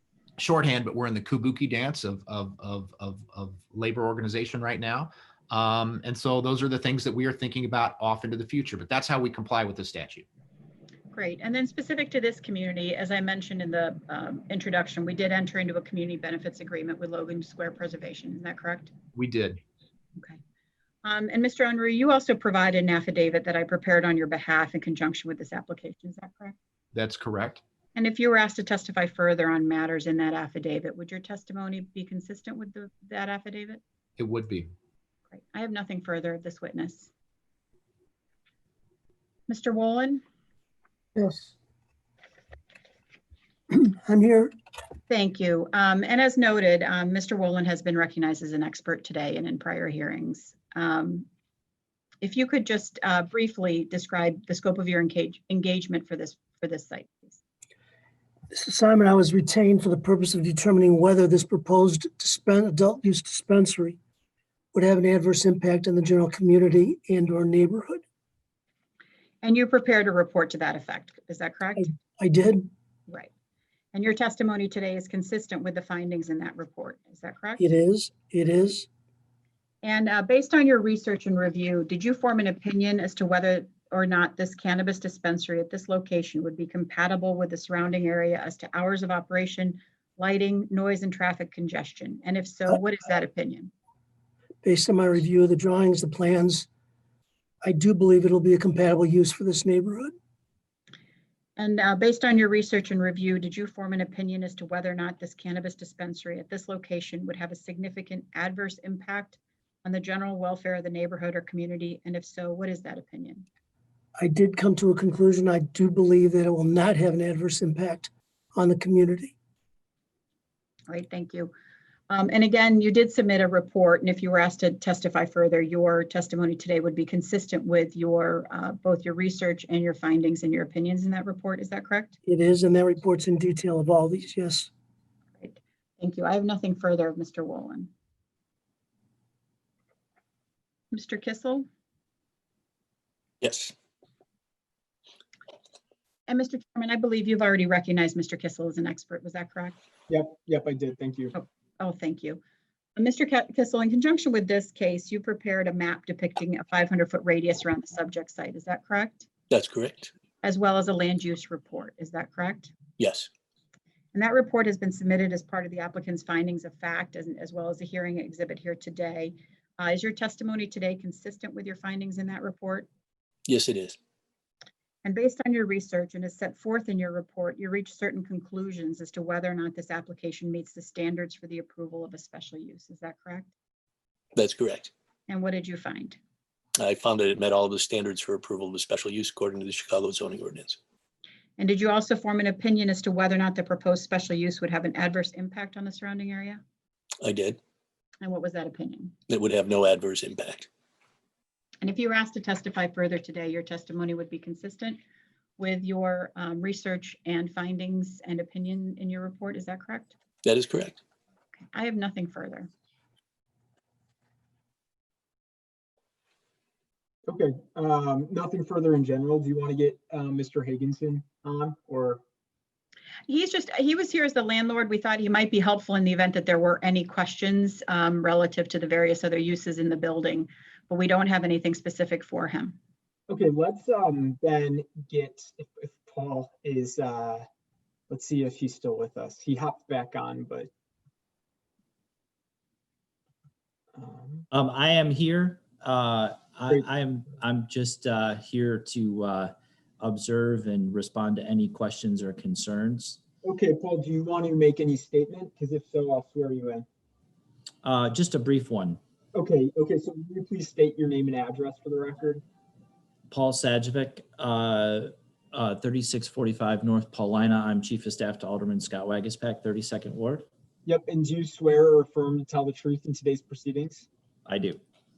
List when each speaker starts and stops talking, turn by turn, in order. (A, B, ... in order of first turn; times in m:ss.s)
0:00.4-0:10.2 A
0:11.1-0:18.9 B
0:19.2-0:19.6 A
0:21.0-0:26.6 B
0:26.9-0:27.6 A
0:28.0-0:33.8 B
0:34.2-0:34.7 A
0:35.3-0:37.1 B
0:39.5-0:40.2 B
0:41.2-0:41.5 C
0:43.7-0:44.5 C
0:45.1-0:51.3 B
0:52.2-0:57.4 B
0:58.5-1:04.0 C
1:04.7-1:08.0 C
1:09.4-1:11.9 B
1:11.8-1:12.7 C
1:13.9-1:17.6 B
1:17.6-1:18.9 C
1:19.8-1:33.7 B
1:34.6-1:36.7 C
1:37.6-1:40.1 C
1:41.6-1:53.5 B
1:54.2-1:59.3 C
2:00.9-2:01.5 B
2:02.1-2:12.2 B
2:12.3-2:14.7 C
2:15.4-2:17.9 B
2:20.9-2:21.7 B
2:23.4-2:23.7 D
2:26.3-2:29.8 B
2:30.1-2:31.3 E
2:31.4-2:32.4 B
2:33.0-2:39.3 B
2:39.5-2:39.9 D
2:40.4-2:42.7 B
2:44.1-2:52.9 B
2:53.5-2:53.9 D
2:55.0-3:03.5 B
3:04.4-3:04.9 D
3:05.3-3:06.2 B
3:06.9-3:10.7 D
3:11.6-3:16.6 B
3:17.2-3:17.5 D
3:18.2-3:19.2 B
3:19.3-3:20.5 D
3:21.8-3:25.0 B
3:25.6-3:30.1 B
3:30.5-3:30.9 D
3:31.6-3:32.7 B
3:37.3-3:42.2 E
3:43.3-3:52.8 B
3:53.3-3:57.5 E
3:58.1-4:00.7 E
4:04.0-4:04.5 E
4:04.5-4:13.2 F
4:13.4-4:16.9 E
4:17.8-4:19.0 F
4:19.3-4:22.4 E
4:23.3-4:30.5 F
4:30.8-4:34.1 E
4:34.5-4:34.8 F